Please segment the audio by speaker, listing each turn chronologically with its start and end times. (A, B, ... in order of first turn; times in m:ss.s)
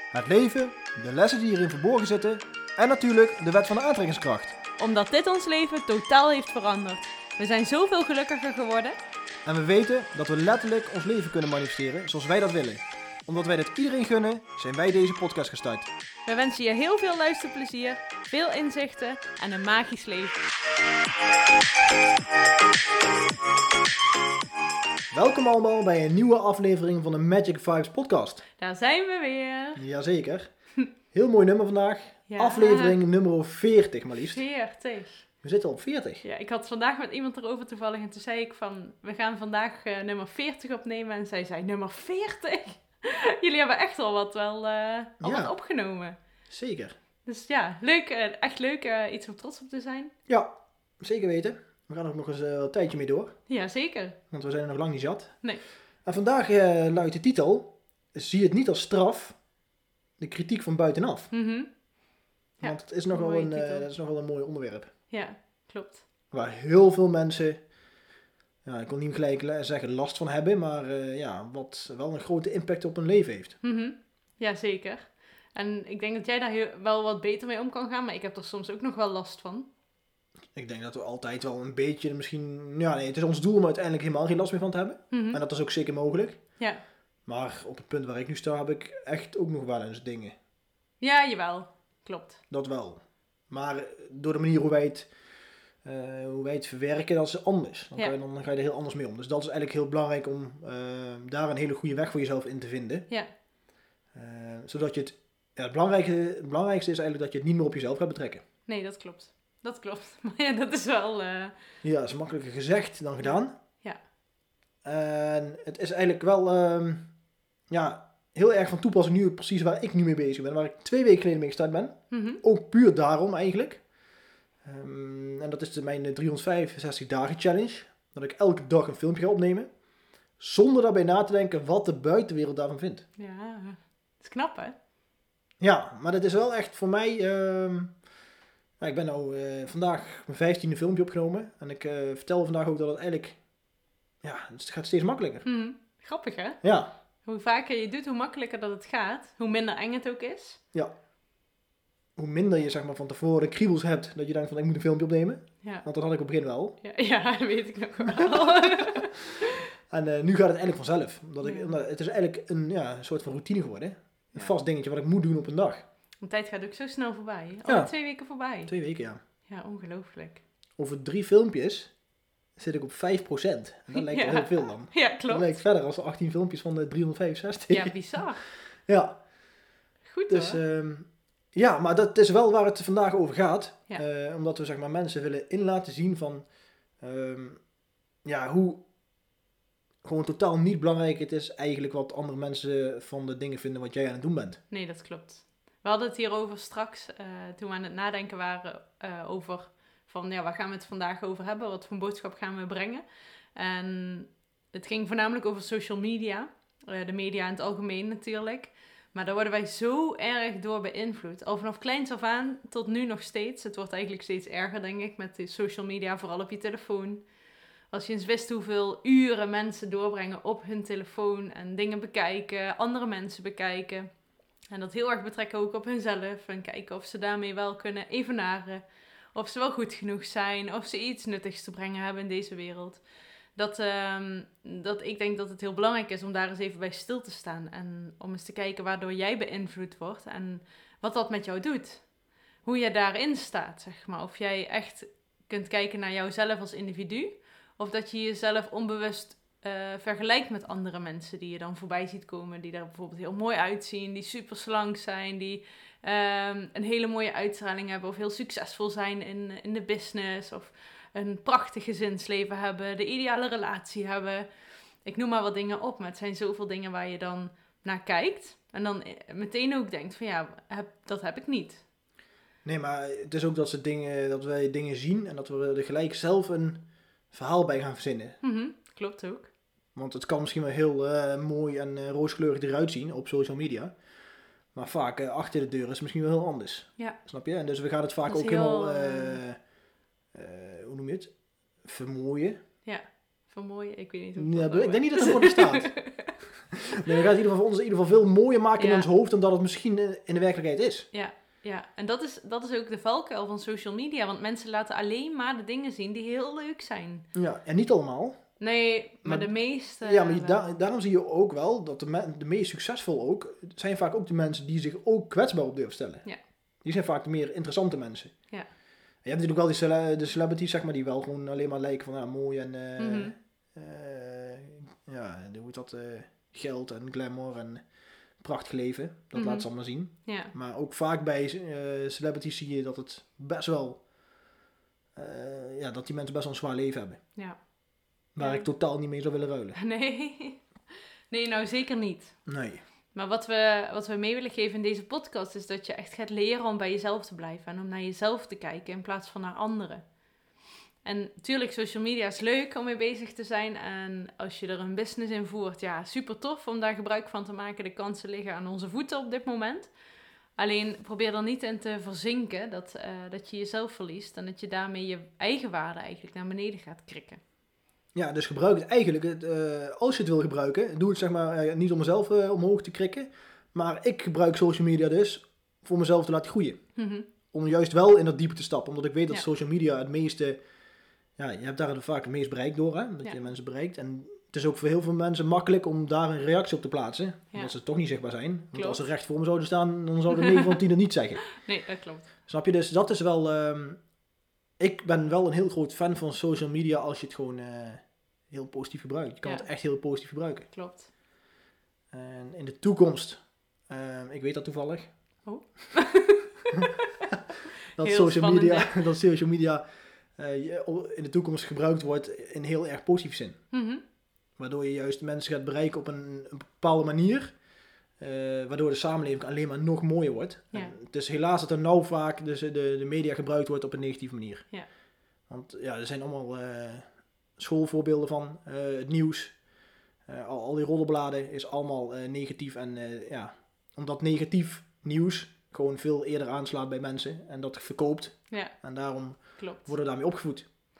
0:00.1-0:04.6 A
0:04.8-0:09.0 B
0:09.4-0:15.9 A
0:16.3-0:20.4 B
0:25.1-0:28.4 A
0:28.6-0:29.8 B
0:29.8-0:34.4 A
0:32.3-0:33.0 B
0:34.3-0:35.3 B
0:35.4-0:36.2 A
0:36.2-0:46.2 B
0:45.2-0:45.5 A
0:46.5-0:47.0 A
0:47.2-0:50.1 B
0:50.3-0:53.4 A
0:53.5-0:54.2 B
0:54.3-0:59.4 A
1:00.2-1:01.3 A
1:01.3-1:02.0 B
1:02.6-1:03.9 B
1:02.6-1:04.9 A
1:05.1-1:06.0 B
1:06.3-1:07.7 A
1:08.6-1:13.6 A
1:13.6-1:19.7 B
1:20.5-1:26.7 A
1:25.1-1:25.4 B
1:27.2-1:30.4 A
1:31.0-1:32.4 B
1:32.5-1:35.2 A
1:35.8-1:43.1 A
1:44.1-1:48.4 A
1:48.7-1:51.5 B
1:51.8-1:53.6 A
1:53.2-1:54.0 B
1:54.8-1:57.1 A
1:57.7-2:03.9 A
2:02.1-2:02.4 B
2:04.6-2:09.7 A
2:10.4-2:13.1 A
2:13.2-2:14.8 B
2:15.6-2:18.1 A
2:18.8-2:23.5 A
2:24.2-2:25.5 A
2:25.4-2:30.6 B
2:26.6-2:26.9 A
2:32.2-2:36.8 A
2:36.8-2:39.1 B
2:38.4-2:39.1 A
2:39.9-2:45.9 A
2:41.4-2:41.7 B
2:46.2-2:50.4 B
2:47.6-2:49.2 A
2:50.8-2:52.0 A
2:52.5-2:59.6 A
2:53.9-2:55.6 B
2:57.7-2:58.4 B
3:00.0-3:00.6 B
3:00.3-3:07.7 A
3:08.2-3:08.9 A
3:10.0-3:14.6 A
3:14.7-3:37.4 B
3:37.9-4:31.8 B
4:32.6-4:38.4 A
4:38.4-4:39.5 B
4:39.9-4:44.1 A
4:44.7-4:49.7 A
4:48.2-4:49.4 B
4:50.3-4:52.6 A
4:52.8-4:56.3 B
4:54.4-5:01.1 A
4:58.8-4:59.1 B
5:01.1-5:07.3 B
5:07.3-5:08.7 A
5:08.6-5:10.7 B
5:09.2-5:34.1 A
5:23.0-5:23.4 B
5:29.3-5:30.5 B
5:35.2-5:37.2 A
5:37.4-5:38.7 B
5:38.3-5:39.8 A
5:39.8-5:42.5 B
5:42.5-5:42.8 A
5:43.0-5:50.1 B
5:51.0-5:59.9 B
6:00.6-6:07.4 B
6:08.1-6:20.7 A
6:17.0-6:17.3 B
6:21.3-6:31.7 A
6:28.7-6:29.0 B
6:31.6-6:32.3 B
6:32.5-6:34.2 A
6:34.8-6:40.7 A
6:39.4-6:39.7 B
6:40.7-6:41.1 B
6:42.1-6:45.5 A
6:45.4-6:46.7 B
6:47.9-6:53.8 A
6:48.0-6:49.0 B
6:53.7-6:54.0 B
6:54.6-7:20.7 A
7:18.5-7:18.8 B
7:19.4-7:19.9 B